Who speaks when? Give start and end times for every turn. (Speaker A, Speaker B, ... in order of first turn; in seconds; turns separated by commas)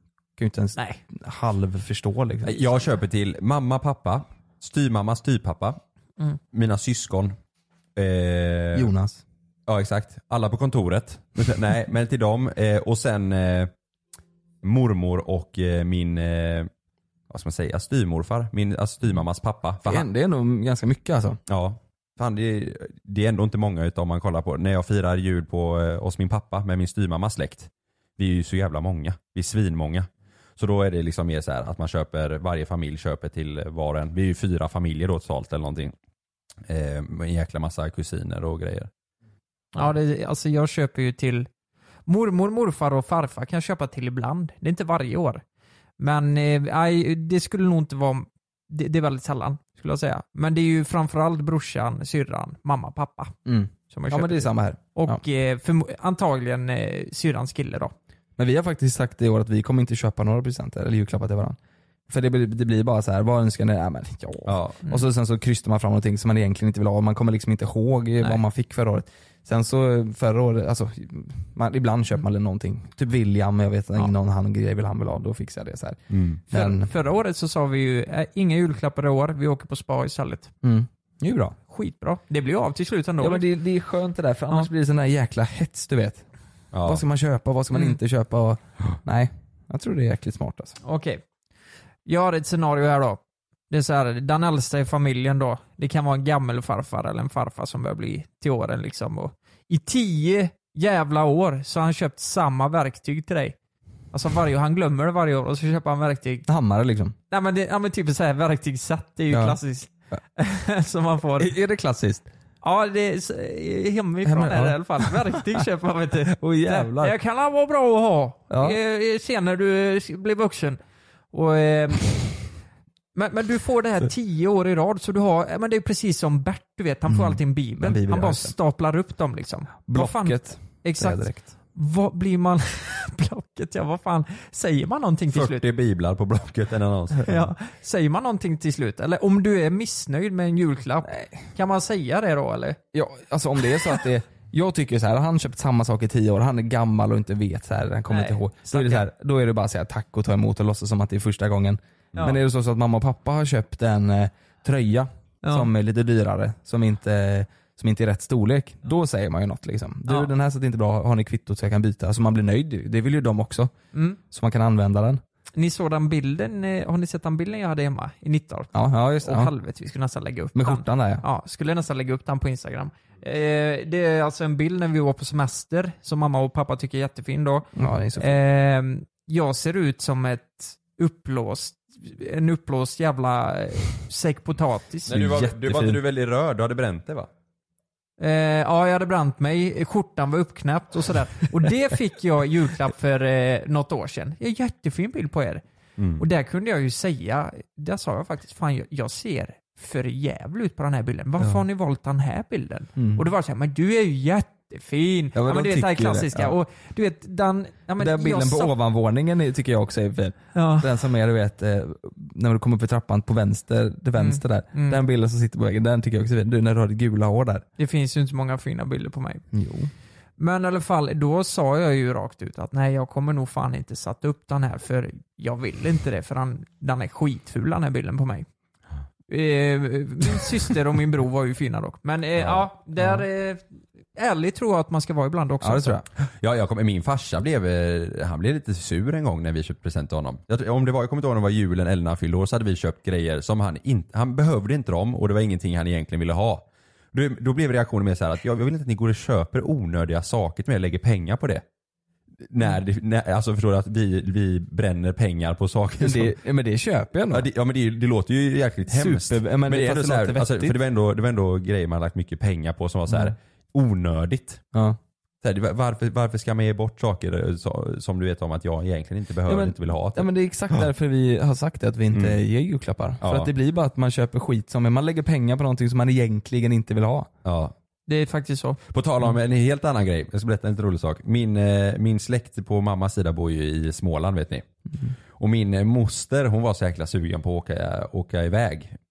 Speaker A: 0.4-2.7, Speaker B: 2.5-5.8, Speaker B: 6.5-7.4, Speaker B: 8.0-8.9, Speaker A: 8.7-9.2, Speaker B: 9.7-13.7, Speaker B: 14.6-16.7, Speaker B: 17.3-20.1, Speaker A: 19.8-21.4, Speaker B: 21.5-35.9, Speaker B: 36.7-38.9, Speaker C: 39.8-41.5, Speaker C: 42.1-45.4, Speaker C: 46.0-53.4, Speaker A: 53.5-55.2, Speaker C: 53.9-57.9, Speaker A: 58.4-61.6, Speaker A: 62.1-76.9, Speaker B: 64.5-64.8, Speaker B: 76.1-76.4, Speaker C: 76.5-80.5, Speaker A: 80.6-81.6, Speaker C: 81.7-83.4, Speaker A: 83.2-86.3, Speaker B: 86.7-87.0, Speaker A: 86.8-90.8, Speaker C: 90.8-91.2, Speaker C: 92.1-103.6, Speaker C: 104.1-106.5, Speaker A: 106.5-107.2, Speaker C: 107.3-111.5, Speaker A: 109.3-109.6, Speaker A: 111.4-112.3, Speaker C: 112.6-120.8, Speaker A: 114.2-115.6, Speaker A: 116.3-117.2, Speaker A: 118.5-118.8, Speaker C: 121.3-122.3, Speaker C: 123.2-135.7, Speaker A: 127.1-128.6, Speaker A: 129.9-131.4, Speaker B: 135.3-137.3, Speaker C: 137.2-142.8, Speaker A: 142.9-163.7, Speaker C: 148.1-149.1, Speaker C: 155.4-155.7, Speaker C: 163.9-164.2, Speaker A: 164.3-165.2, Speaker C: 165.6-185.1, Speaker A: 168.7-169.5, Speaker A: 170.6-171.2, Speaker A: 177.8-178.4, Speaker B: 185.1-187.3, Speaker A: 185.1-186.0, Speaker C: 188.2-195.6, Speaker B: 196.0-196.2, Speaker C: 196.2-208.7, Speaker A: 203.0-203.2, Speaker A: 205.3-206.6, Speaker A: 208.0-217.7, Speaker C: 210.6-210.9, Speaker C: 214.2-215.0, Speaker C: 217.8-219.4, Speaker A: 219.5-219.9, Speaker C: 220.4-228.5, Speaker C: 229.3-233.6, Speaker B: 232.4-232.7, Speaker C: 234.2-236.0, Speaker A: 235.6-236.1, Speaker B: 236.2-251.6, Speaker B: 252.5-256.4, Speaker A: 256.0-257.5, Speaker B: 257.3-264.6, Speaker A: 258.9-260.8, Speaker A: 263.1-263.4, Speaker B: 265.4-270.9, Speaker A: 269.5-277.3, Speaker B: 272.1-272.4, Speaker B: 273.2-273.5, Speaker B: 277.4-277.7, Speaker C: 278.1-278.8, Speaker B: 278.9-284.7, Speaker B: 285.4-288.9